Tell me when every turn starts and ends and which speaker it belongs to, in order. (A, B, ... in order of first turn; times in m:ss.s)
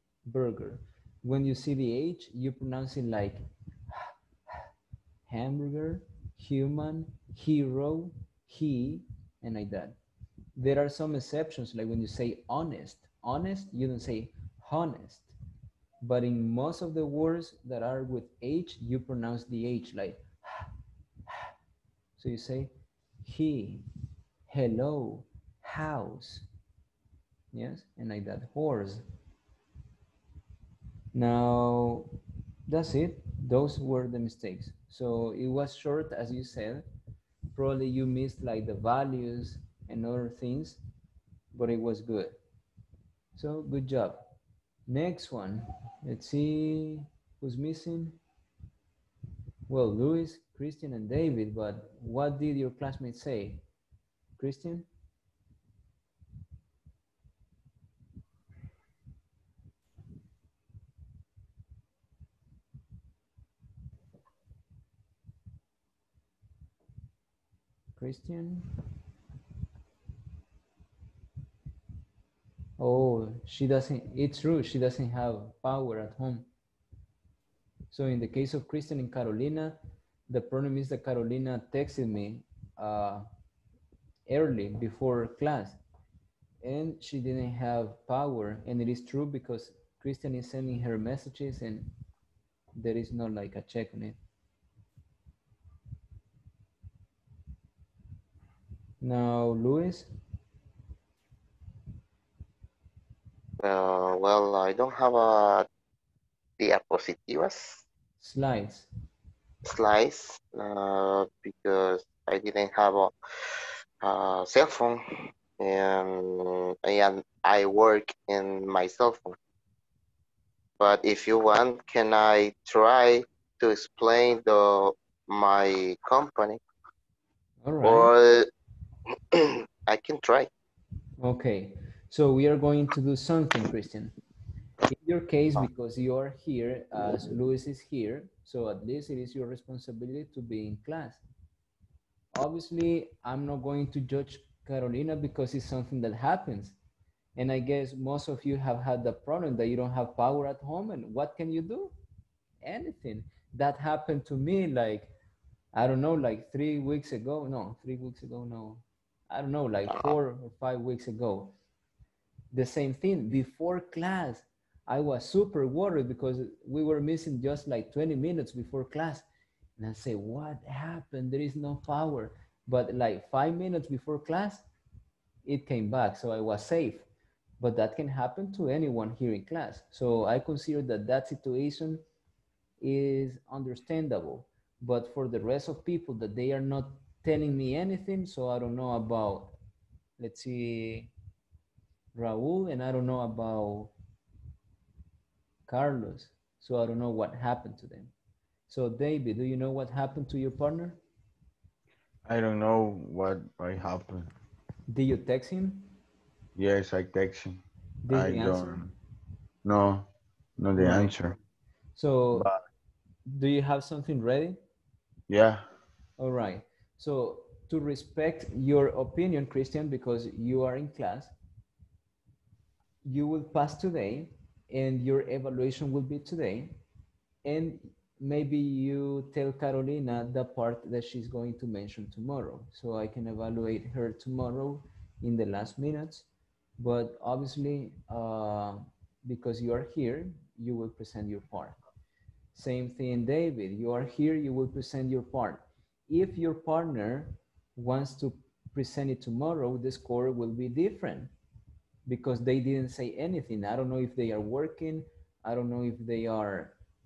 0:00.2-0:04.1 A
0:05.2-0:10.0 A
0:10.6-0:15.3 A
0:16.0-0:20.7 A
0:22.2-0:22.7 A
0:23.2-0:23.8 A
0:24.5-0:26.5 A
0:27.5-0:29.0 A
0:31.1-0:32.1 A
0:32.7-0:36.8 A
0:37.5-0:40.8 A
0:41.5-0:42.4 A
0:43.3-0:44.3 A
0:44.9-0:48.2 A
0:49.7-0:53.6 A
0:54.4-0:54.9 A
1:08.0-1:08.7 A
1:12.8-1:16.5 A
1:17.9-1:23.2 A
1:24.3-1:25.8 A
1:26.6-1:31.9 A
1:32.8-1:34.2 A
1:39.0-1:40.1 A
1:43.6-1:45.7 B
1:46.6-1:47.8 B
1:48.2-1:48.9 A
1:49.6-1:53.1 B
1:54.0-1:59.4 B
2:00.8-2:06.6 B
2:07.6-2:08.1 A
2:07.8-2:08.5 B
2:09.3-2:10.5 B
2:11.2-2:14.1 A
2:14.9-2:21.2 A
2:22.3-2:26.8 A
2:27.4-2:31.9 A
2:32.6-2:35.1 A
2:35.7-2:41.5 A
2:42.5-2:49.2 A
2:49.8-2:54.6 A
2:55.4-2:57.1 A
2:57.6-3:02.0 A
3:02.8-3:09.5 A
3:10.2-3:11.1 A
3:12.1-3:13.9 A
3:15.7-3:18.1 A
3:18.7-3:21.0 A
3:22.2-3:24.3 C
3:24.9-3:25.9 A
3:26.6-3:28.9 C
3:28.0-3:28.8 A
3:29.6-3:31.4 C
3:30.8-3:31.1 A
3:32.0-3:32.5 A
3:32.3-3:32.6 C
3:33.3-3:34.6 A
3:35.3-3:35.6 C
3:36.2-3:41.3 A
3:43.0-3:46.8 A
3:47.4-3:56.3 A
3:56.8-4:01.8 A
4:02.5-4:11.3 A
4:12.0-4:16.8 A